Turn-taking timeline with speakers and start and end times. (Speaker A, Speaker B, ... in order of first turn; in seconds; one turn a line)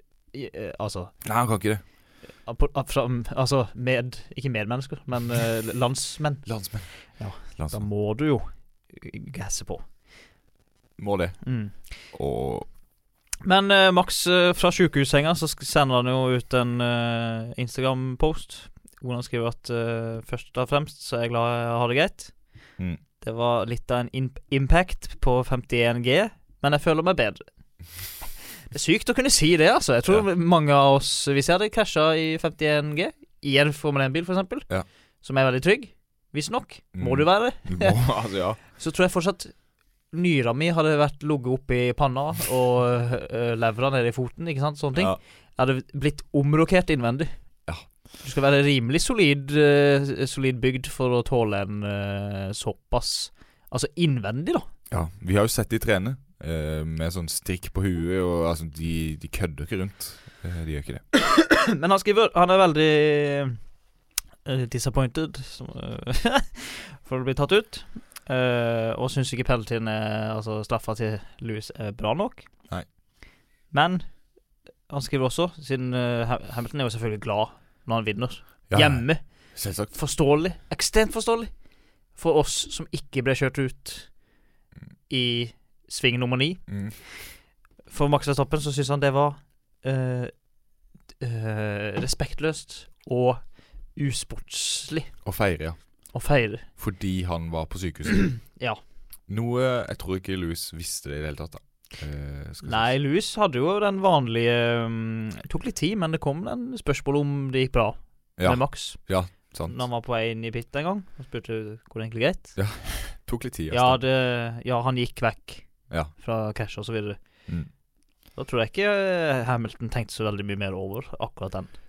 Speaker A: 0.3-1.1
Speaker B: 1.2-1.8
Speaker A: 2.5-9.8
Speaker B: 6.5-7.8
Speaker B: 11.0-12.7
Speaker A: 11.4-11.8
Speaker A: 13.4-22.4
Speaker A: 23.2-27.4
Speaker A: 28.7-34.7
Speaker A: 35.2-38.0
Speaker B: 37.0-38.6
Speaker A: 38.7-39.6
Speaker A: 40.1-47.3
Speaker A: 48.2-54.7
Speaker B: 54.9-61.0
Speaker A: 61.3-63.6
Speaker A: 64.5-72.5
Speaker A: 73.7-74.1
Speaker A: 74.9-81.5
Speaker B: 78.7-79.9
Speaker A: 82.2-84.1
Speaker A: 85.1-87.1
Speaker B: 86.7-87.0
Speaker A: 87.9-90.3
Speaker A: 91.2-95.1
Speaker B: 95.2-95.8
Speaker A: 96.1-96.7
Speaker B: 96.8-98.5
Speaker A: 98.3-98.8
Speaker B: 99.3-102.9
Speaker A: 102.6-112.6
Speaker B: 108.4-109.8
Speaker B: 112.6-114.0
Speaker A: 113.7-117.5
Speaker A: 118.3-121.7